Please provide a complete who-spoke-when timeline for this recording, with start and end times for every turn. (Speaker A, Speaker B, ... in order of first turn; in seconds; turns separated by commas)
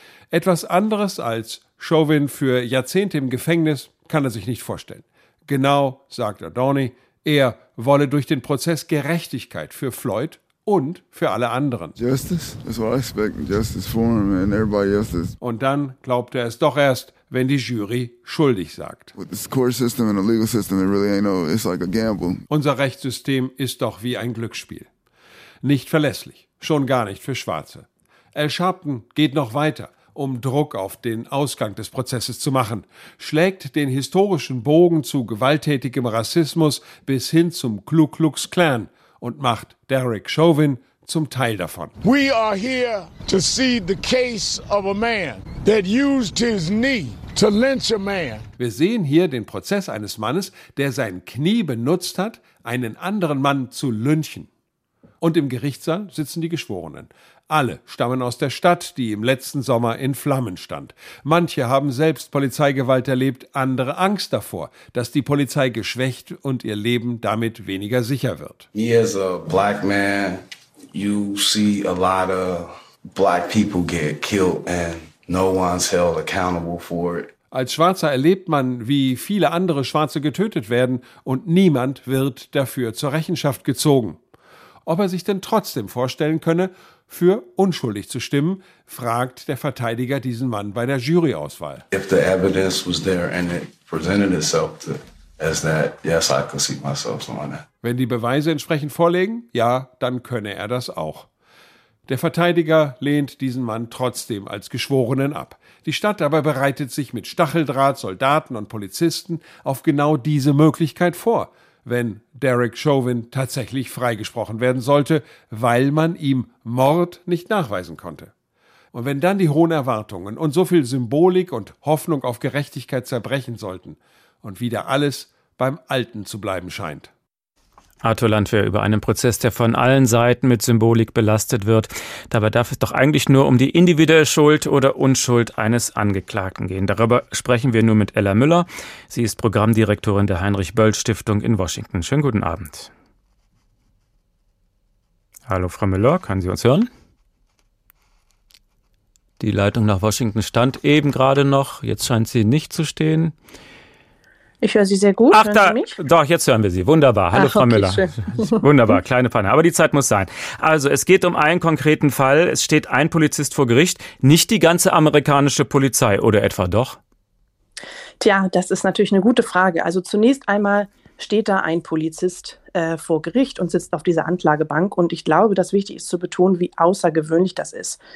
Speaker A: 0.3-11.9, Speaker B: 12.0-15.4, Speaker A: 15.4-19.1, Speaker B: 19.1-22.4, Speaker A: 22.5-24.9, Speaker A: 25.6-41.9, Speaker C: 42.0-48.4, Speaker A: 48.6-54.5, Speaker A: 55.2-68.7, Speaker D: 68.7-77.3, Speaker A: 77.5-84.2, Speaker A: 84.9-91.8, Speaker D: 91.9-97.7, Speaker A: 97.8-101.3, Speaker A: 102.1-118.3, Speaker A: 118.9-127.1, Speaker E: 128.0-142.9, Speaker E: 145.5-146.9, Speaker E: 149.4-153.3, Speaker F: 154.6-155.9, Speaker E: 155.3-167.0, Speaker F: 157.3-158.4, Speaker F: 168.2-178.0